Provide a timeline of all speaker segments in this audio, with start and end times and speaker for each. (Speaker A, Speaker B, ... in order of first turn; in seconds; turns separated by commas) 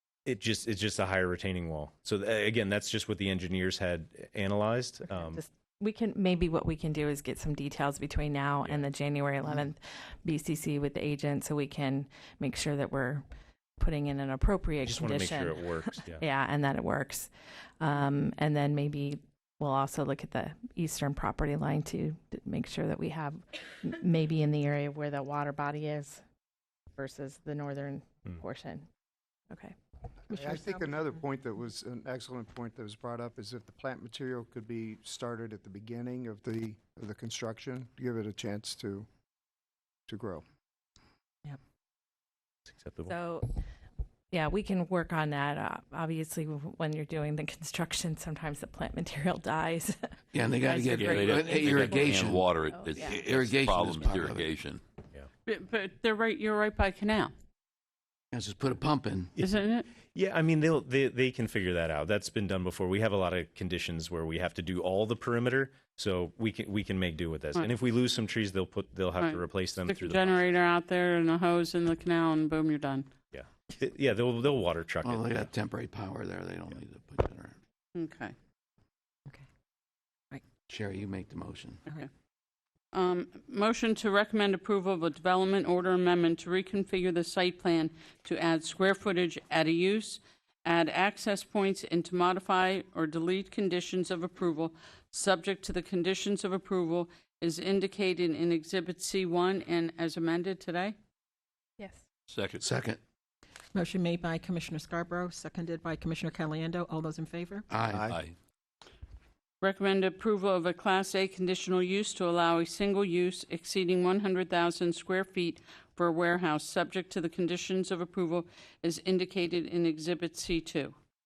Speaker A: 0.3-5.4, Speaker B: 5.1-13.3, Speaker B: 13.8-26.2, Speaker A: 14.8-16.2, Speaker B: 27.0-28.9, Speaker C: 30.3-31.2, Speaker D: 30.3-39.1, Speaker D: 40.1-40.4, Speaker A: 42.7-43.1, Speaker B: 43.1-43.5, Speaker B: 44.3-53.2, Speaker E: 50.3-52.5, Speaker F: 51.0-54.8, Speaker E: 53.0-54.5, Speaker G: 55.5-57.3, Speaker E: 58.3-59.3, Speaker G: 59.4-59.9, Speaker A: 60.1-70.5, Speaker G: 69.2-73.1, Speaker A: 73.3-75.5, Speaker E: 75.0-77.6, Speaker G: 78.0-78.3, Speaker E: 80.7-81.9, Speaker G: 82.9-101.0, Speaker F: 102.3-102.7, Speaker E: 102.6-103.0, Speaker C: 103.7-107.7, Speaker E: 107.7-108.1, Speaker F: 108.0-108.3, Speaker G: 109.6-120.9